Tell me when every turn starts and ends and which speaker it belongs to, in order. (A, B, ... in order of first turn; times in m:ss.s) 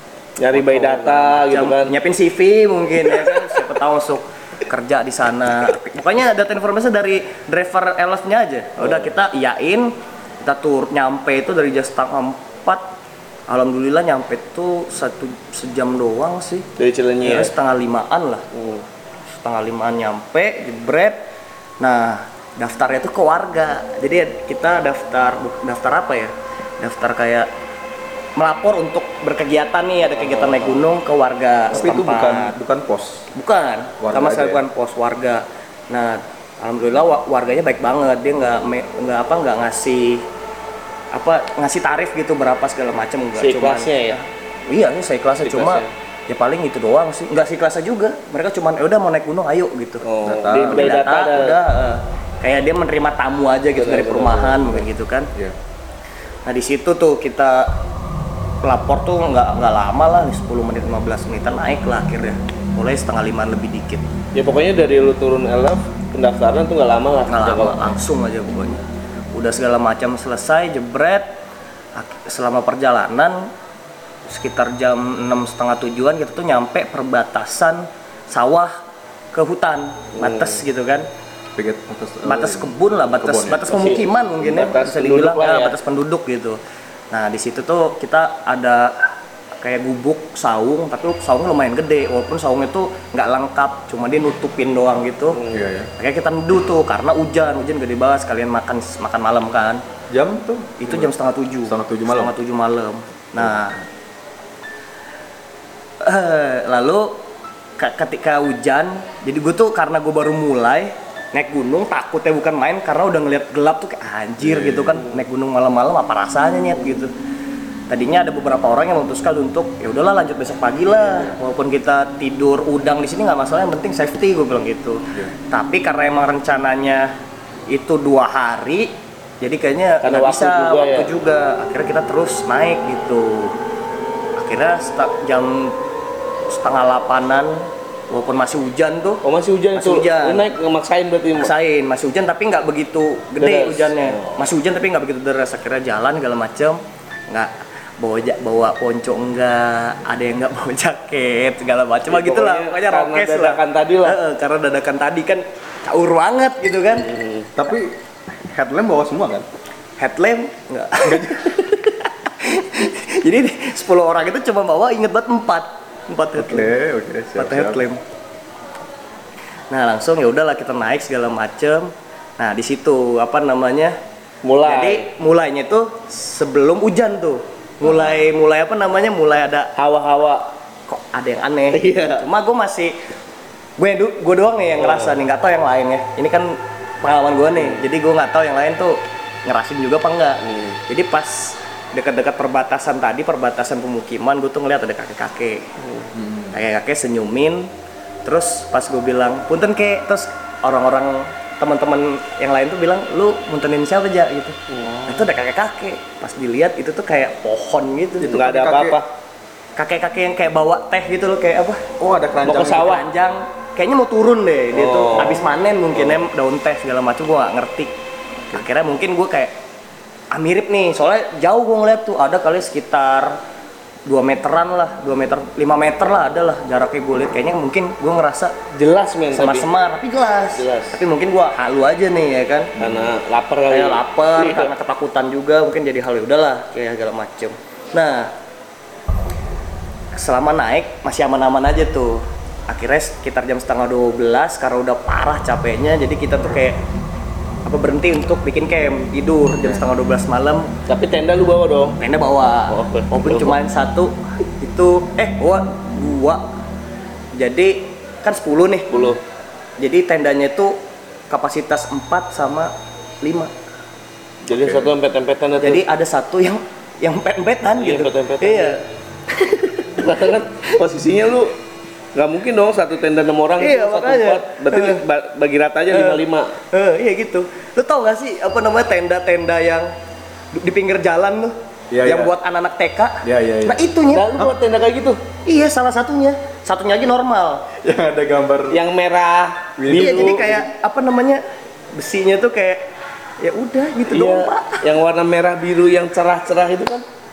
0:00.4-0:01.9 A
0:00.5-0:12.9 B
0:03.1-0:03.6 A
0:08.8-0:09.1 A
0:13.5-0:16.7 B
0:16.8-0:17.5 A
0:17.2-0:18.4 B
0:18.5-0:18.8 A
0:19.4-0:21.2 B
0:21.8-0:27.5 B
0:28.4-0:32.5 B
0:30.1-0:30.8 A
0:31.7-0:33.3 C
0:33.3-0:40.3 B
0:34.0-0:34.6 C
0:41.1-0:55.3 B
0:43.4-0:44.2 A
0:45.4-0:45.9 A
0:50.0-0:51.6 A
0:50.2-0:51.0 C
0:53.8-0:54.8 A
0:56.5-0:57.7 B
0:58.6-1:04.1 B
1:04.3-1:07.9 A
1:07.3-1:11.3 B
1:12.0-1:13.5 B
1:14.3-1:18.8 B
1:19.3-1:21.1 B
1:20.2-1:20.6 A
1:21.6-1:23.7 C
1:22.2-1:26.6 B
1:23.7-1:25.7 A
1:24.4-1:24.7 C
1:27.1-1:35.4 B
1:35.3-1:35.6 A
1:35.5-1:35.9 C
1:36.0-1:39.8 B
1:40.1-1:41.1 C
1:40.8-1:43.8 B
1:41.6-1:42.3 C
1:43.4-1:43.7 C
1:46.0-1:47.2 B
1:47.8-1:57.1 B
1:54.4-1:55.1 C
1:57.9-2:07.1 B
2:01.0-2:01.4 C
2:07.7-2:13.6 B
2:10.0-2:11.1 A
2:14.4-2:15.8 B
2:16.5-2:19.2 B
2:19.2-2:21.5 A
2:19.7-2:20.5 B
2:21.4-2:37.1 B
2:23.4-2:24.4 A
2:32.1-2:34.2 A
2:37.0-2:37.5 A
2:37.6-2:38.0 C
2:38.5-2:39.5 C
2:40.0-2:46.7 B
2:41.0-2:41.5 C
2:46.4-2:47.8 C
2:47.4-2:48.0 B
2:49.7-2:54.0 B
2:54.4-2:55.1 A
2:54.6-2:59.7 B
2:59.8-3:00.5 A
3:00.9-3:03.0 B
3:01.7-3:02.2 A
3:03.8-3:15.7 B
3:04.8-3:05.2 A
3:07.6-3:07.8 A
3:10.5-3:10.8 A
3:15.8-3:16.1 A
3:16.2-3:16.6 C
3:16.5-3:17.7 B
3:18.2-3:28.4 B
3:24.8-3:25.2 C
3:28.2-3:29.0 C
3:28.3-3:29.1 A
3:29.8-3:31.9 B
3:32.0-3:32.9 C
3:32.4-3:33.1 A
3:32.5-3:37.9 B
3:34.7-3:36.2 A
3:38.5-3:39.6 B
3:40.3-3:43.4 B
3:44.1-3:48.6 B
3:48.7-3:49.7 A
3:49.3-3:52.7 B
3:50.6-3:51.0 A
3:52.8-3:54.7 A
3:52.8-3:53.1 C
3:53.7-3:58.3 B
4:00.1-4:06.8 B
4:07.7-4:10.7 B
4:10.9-4:12.0 A
4:12.0-4:16.5 B
4:12.7-4:13.6 A
4:17.4-4:19.1 B
4:18.9-4:19.2 A
4:19.8-4:20.8 B
4:21.3-4:23.5 B
4:24.4-4:25.9 A
4:24.5-4:24.9 C
4:25.6-4:30.8 B
4:27.8-4:28.8 A
4:30.0-4:31.6 A
4:32.2-4:36.6 A
4:33.6-4:35.0 B
4:35.9-4:39.9 B
4:40.5-4:44.3 B
4:41.9-4:42.3 C
4:43.2-4:43.8 C
4:44.1-4:45.2 A
4:45.5-4:47.6 B
4:47.8-4:48.8 C
4:48.7-4:50.6 A
4:49.8-4:50.5 C
4:49.9-4:51.4 B
4:52.0-4:52.9 B
4:53.4-4:54.8 B
4:54.1-4:57.0 A